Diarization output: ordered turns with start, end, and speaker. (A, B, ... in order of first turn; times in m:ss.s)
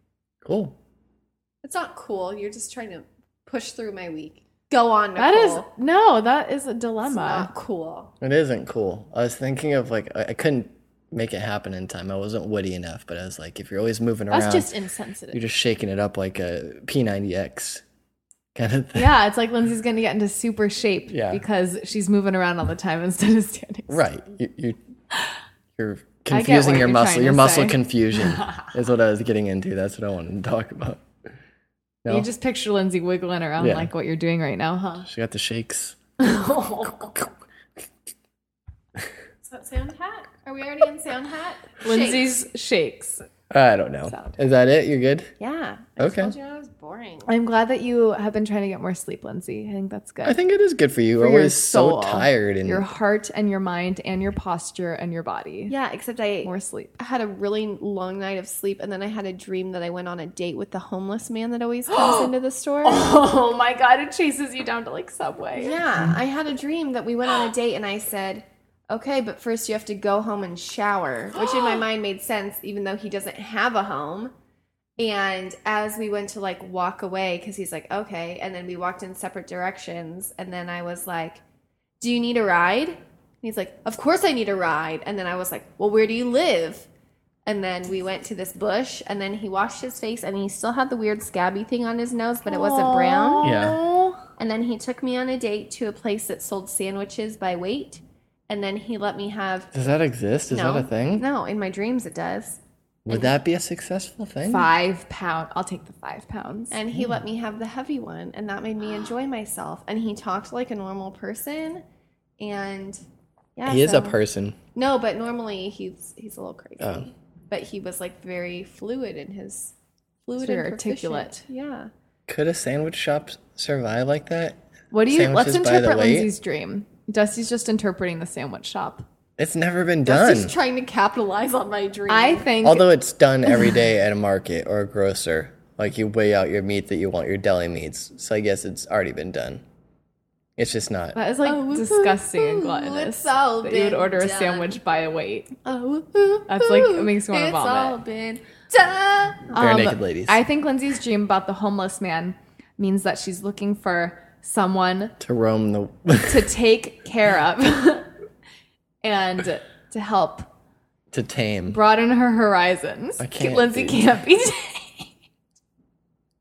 0:00.4-0:00.8 A
0:01.6-0:05.7 B
0:05.2-0:07.5 C
0:07.0-0:08.1 B
0:08.2-0:14.7 A
0:14.3-0:15.4 C
0:15.3-0:17.8 A
0:18.5-0:19.1 A
0:18.9-0:24.0 C
0:21.1-0:21.4 A
0:23.9-0:24.8 A
0:25.8-0:31.0 A
0:26.3-0:28.7 C
0:32.1-0:35.1 C
0:33.6-0:33.9 A
0:35.0-0:36.0 A
0:36.2-0:37.1 C
0:36.8-0:37.3 A
0:39.4-0:42.3 B
0:41.8-0:43.2 C
0:43.5-0:45.3 A
0:44.1-0:44.4 C
0:45.4-0:47.3 B
0:46.0-0:46.3 A
0:47.2-0:50.4 C
0:50.2-0:52.8 A
0:51.2-0:55.7 C
0:55.7-1:03.2 B
0:56.4-0:56.9 C
1:01.9-1:02.3 C
1:02.8-1:05.8 C
1:05.6-1:14.3 B
1:11.4-1:11.8 C
1:15.0-1:21.4 B
1:22.0-1:26.9 B
1:27.4-1:33.6 B
1:32.5-1:34.2 C
1:33.4-1:33.8 A
1:34.4-1:39.7 B
1:39.7-1:41.2 A
1:40.5-1:42.6 B
1:43.0-1:44.7 A
1:44.4-1:46.8 C
1:46.7-1:51.8 B
1:52.4-1:53.0 B
1:53.6-1:54.2 B
1:53.6-1:54.6 A
1:54.7-1:59.7 B
1:56.8-1:57.1 A
2:00.2-2:01.9 B
2:00.3-2:01.4 C
2:02.3-2:06.3 A
2:04.9-2:09.0 C
2:09.4-2:10.5 A
2:10.0-2:12.5 B
2:12.1-2:12.9 C
2:12.6-2:19.6 A
2:20.6-2:21.2 A
2:21.1-2:25.6 C
2:21.4-2:24.8 B
2:25.6-2:29.6 B
2:26.5-2:28.0 C
2:29.5-2:35.2 C
2:29.6-2:30.4 A
2:35.2-2:36.5 A
2:36.2-2:38.1 C
2:39.0-2:40.5 C
2:41.1-2:41.8 A
2:41.7-2:45.1 C
2:43.2-2:44.1 A